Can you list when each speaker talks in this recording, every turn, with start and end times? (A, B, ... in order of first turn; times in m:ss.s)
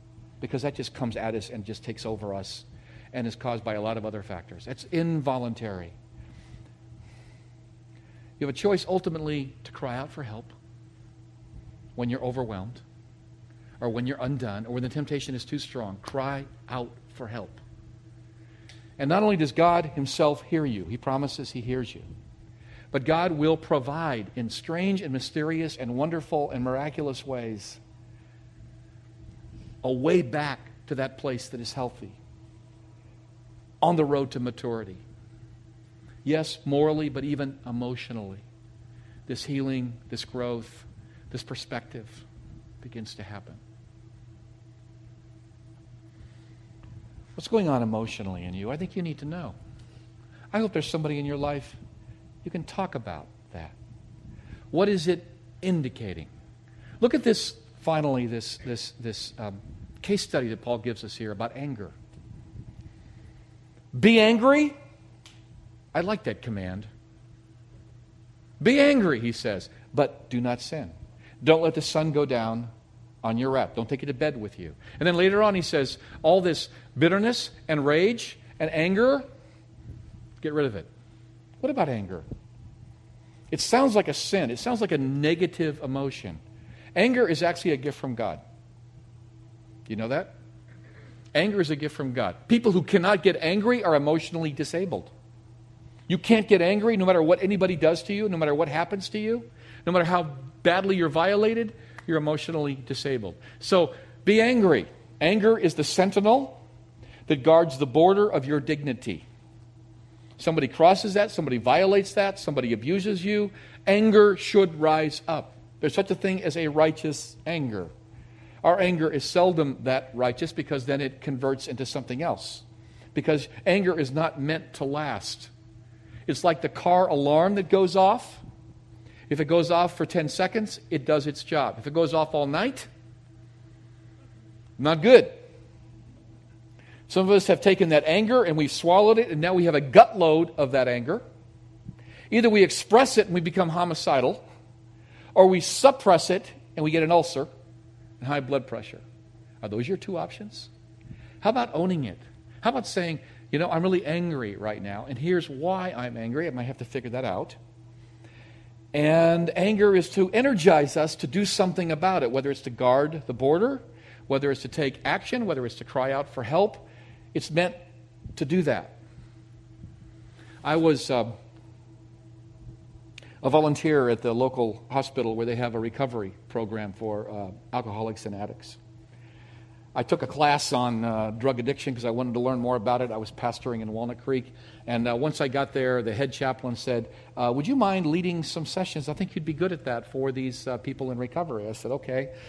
0:00.4-0:06.0 A
0:08.4-0:10.6 A
0:12.0-0:12.8 A
0:13.8-0:17.6 A
0:19.0-0:22.1 A
0:22.9-0:27.8 A
0:29.8-0:32.2 A
0:33.8-0:35.0 A
0:36.2-0:38.4 A
0:39.3-0:42.3 A
0:42.8-0:43.6 A
0:47.4-0:49.6 A
0:50.5-0:51.8 A
0:52.4-0:53.8 A
0:54.7-0:56.3 A
0:57.0-1:02.0 A
1:03.9-1:04.8 A
1:05.9-1:06.9 A
1:08.6-1:12.7 A
1:13.2-1:19.3 A
1:20.4-1:20.9 A
1:21.6-1:22.2 A
1:23.5-1:26.4 A
1:27.0-1:28.4 A
1:29.9-1:30.4 A
1:31.3-1:35.1 A
1:36.1-1:46.6 A
1:47.3-1:49.2 A
1:50.4-1:57.9 A
1:58.6-2:05.5 A
2:06.3-2:08.4 A
2:09.3-2:12.9 A
2:14.8-2:15.3 A
2:17.1-2:21.2 A
2:22.3-2:24.4 A
2:25.4-2:27.5 A
2:28.2-2:29.0 A
2:29.6-2:30.7 A
2:31.4-2:37.6 A
2:38.9-2:47.8 A
2:48.4-2:49.0 A
2:50.6-2:51.4 A
2:53.4-2:58.8 A
3:00.0-3:12.3 A